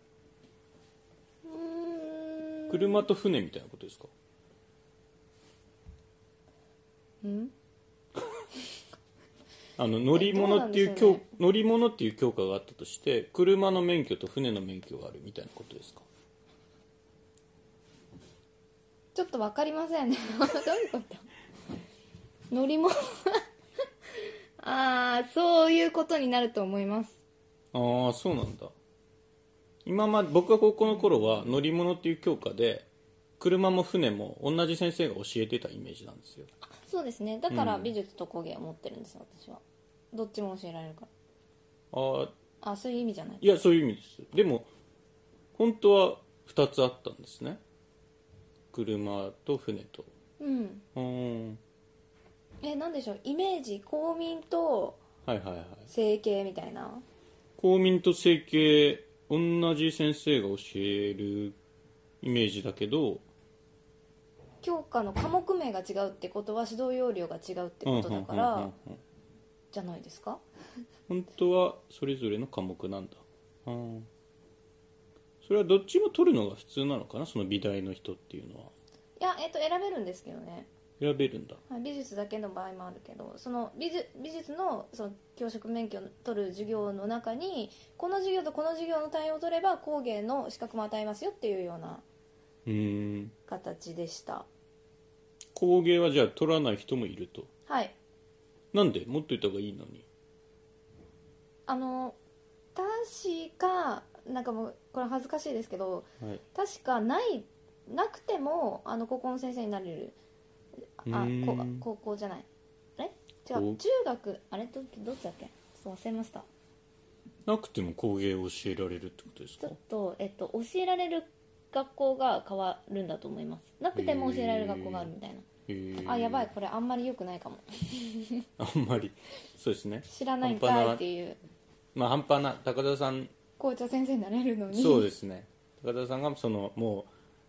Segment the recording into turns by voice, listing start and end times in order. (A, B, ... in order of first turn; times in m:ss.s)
0:01.4-0:03.0 A
0:02.7-0:04.1 B
0:07.2-0:07.5 A
0:09.8-0:16.0 B
0:10.1-0:11.2 A
0:19.1-0:21.3 A
0:22.5-0:23.4 A
0:24.6-0:27.2 A
0:27.7-0:28.7 B
0:29.8-0:32.9 B
0:33.4-0:36.5 B
0:36.6-0:39.6 A
0:37.5-0:37.9 B
0:40.1-0:41.1 A
0:41.9-0:42.3 B
0:42.6-0:43.4 A
0:43.4-0:44.7 B
0:45.5-0:47.6 B
0:48.7-0:50.1 B
0:50.4-0:50.8 A
0:50.9-0:51.6 B
0:52.6-0:55.0 A
0:55.2-0:55.9 B
0:55.9-0:57.0 A
0:57.6-1:01.6 B
1:02.2-1:03.2 B
1:04.6-1:08.7 A
1:07.8-1:09.0 B
1:09.7-1:10.4 A
1:11.1-1:14.1 B
1:15.4-1:18.7 B
1:19.2-1:20.7 A
1:21.0-1:21.6 B
1:21.7-1:32.0 A
1:32.6-1:33.3 B
1:33.5-1:34.4 A
1:35.5-1:37.5 B
1:37.7-1:37.9 A
1:38.7-1:40.0 B
1:41.7-1:42.2 A
1:42.7-1:50.2 A
1:51.0-1:52.5 A
1:51.0-1:51.8 B
1:53.0-1:56.5 A
1:53.5-1:53.8 B
1:57.4-1:59.8 B
1:59.6-2:05.4 A
2:03.9-2:05.1 B
2:05.7-2:06.5 B
2:06.0-2:08.4 A
2:08.6-2:11.0 B
2:10.1-2:11.4 A
2:11.9-2:13.3 B
2:13.6-2:15.1 A
2:14.7-2:17.1 B